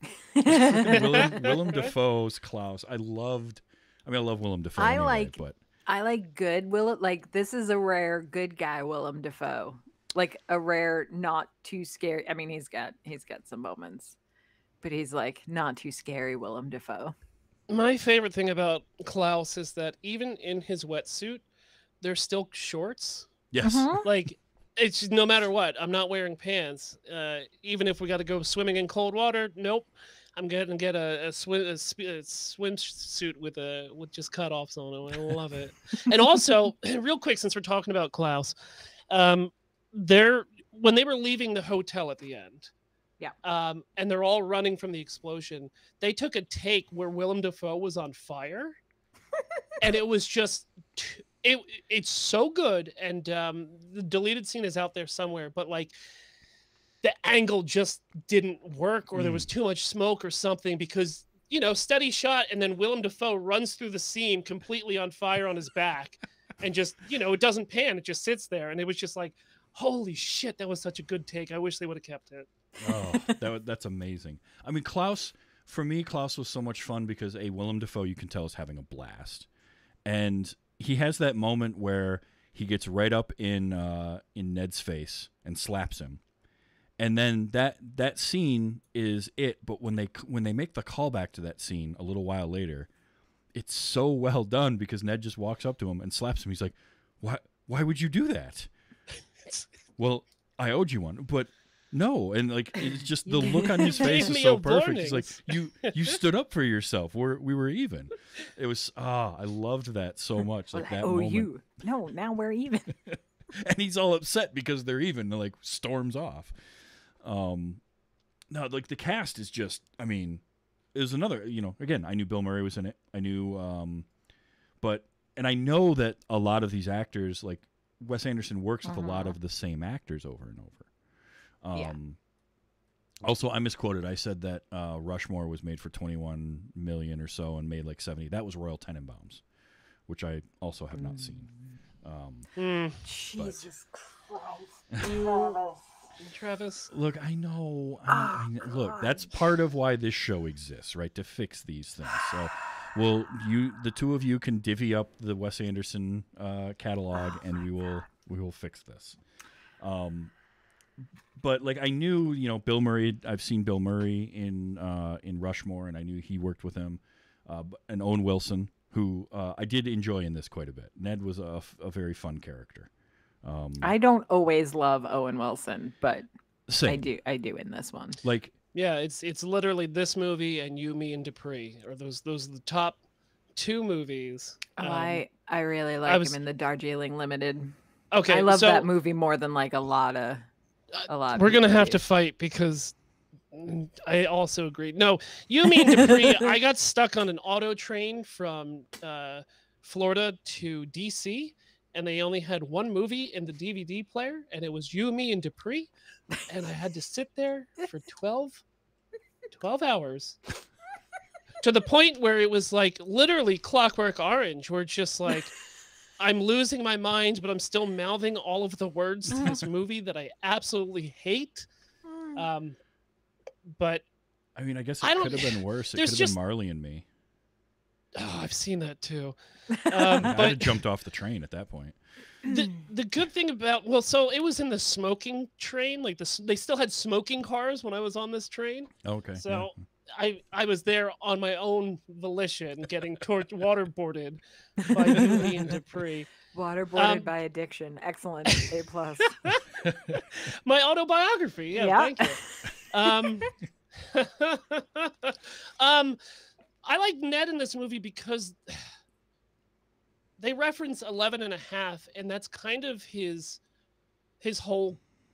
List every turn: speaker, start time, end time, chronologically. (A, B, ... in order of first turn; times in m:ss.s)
0:00.4-0:01.4 A
0:00.4-0:05.6 B
0:00.9-0:01.9 C
0:04.8-0:14.2 A
0:14.8-0:17.2 A
0:17.7-0:21.4 C
0:22.0-0:23.3 C
0:23.5-0:24.0 B
0:23.6-0:24.0 A
0:24.0-0:38.6 C
0:39.1-0:42.7 C
0:43.4-0:48.8 C
0:49.8-0:56.0 C
0:57.0-1:12.5 C
0:59.2-0:59.5 B
1:12.8-1:19.5 B
1:13.1-1:13.4 A
1:20.1-1:26.2 B
1:27.0-1:32.9 B
1:33.5-1:38.7 B
1:40.0-1:51.5 B
1:43.2-1:44.3 A
1:43.7-1:46.1 C
1:50.7-1:52.9 A
1:53.1-1:56.5 B
1:57.2-1:57.8 B
1:58.5-2:00.4 B
2:00.9-2:04.1 B
2:04.8-2:10.9 B
2:08.8-2:09.4 A
2:11.6-2:12.2 B
2:13.2-2:19.4 B
2:20.1-2:21.5 B
2:21.0-2:21.4 A
2:22.0-2:22.5 B
2:22.6-2:23.0 C
2:23.0-2:23.9 A
2:24.9-2:25.2 B
2:25.0-2:25.6 C
2:25.2-2:25.6 A
2:26.2-2:26.9 C
2:26.9-2:39.2 B
2:28.1-2:29.2 A
2:39.8-2:40.3 B
2:41.4-2:52.9 B
2:53.4-2:53.9 B
2:53.8-2:56.3 A
2:56.7-2:57.0 B
2:56.8-2:58.2 A
2:58.2-2:58.5 B
2:58.8-3:03.0 C
3:03.6-3:05.2 C
3:04.8-3:07.8 A
3:06.1-3:06.4 C
3:08.1-3:08.9 C
3:08.3-3:10.5 A
3:11.0-3:13.0 C
3:11.1-3:12.0 A
3:13.5-3:25.9 C
3:15.8-3:16.4 A
3:26.4-3:28.6 C
3:29.5-3:30.4 C
3:31.6-3:35.6 C
3:36.2-3:41.7 C
3:42.1-3:42.4 A
3:42.4-3:42.8 C
3:43.7-3:44.0 C
3:44.6-3:47.0 B
3:45.0-3:46.4 C
3:48.2-3:50.8 C
3:49.9-3:50.4 A
3:50.2-3:52.0 B
3:52.4-4:06.3 C
3:59.0-3:59.7 B
4:04.9-4:05.5 A
4:06.5-4:09.4 A
4:07.0-4:07.3 C
4:09.3-4:12.4 C
4:11.8-4:12.4 A
4:12.9-4:16.2 C
4:16.8-4:18.8 C
4:20.4-4:23.6 C
4:24.4-4:25.0 C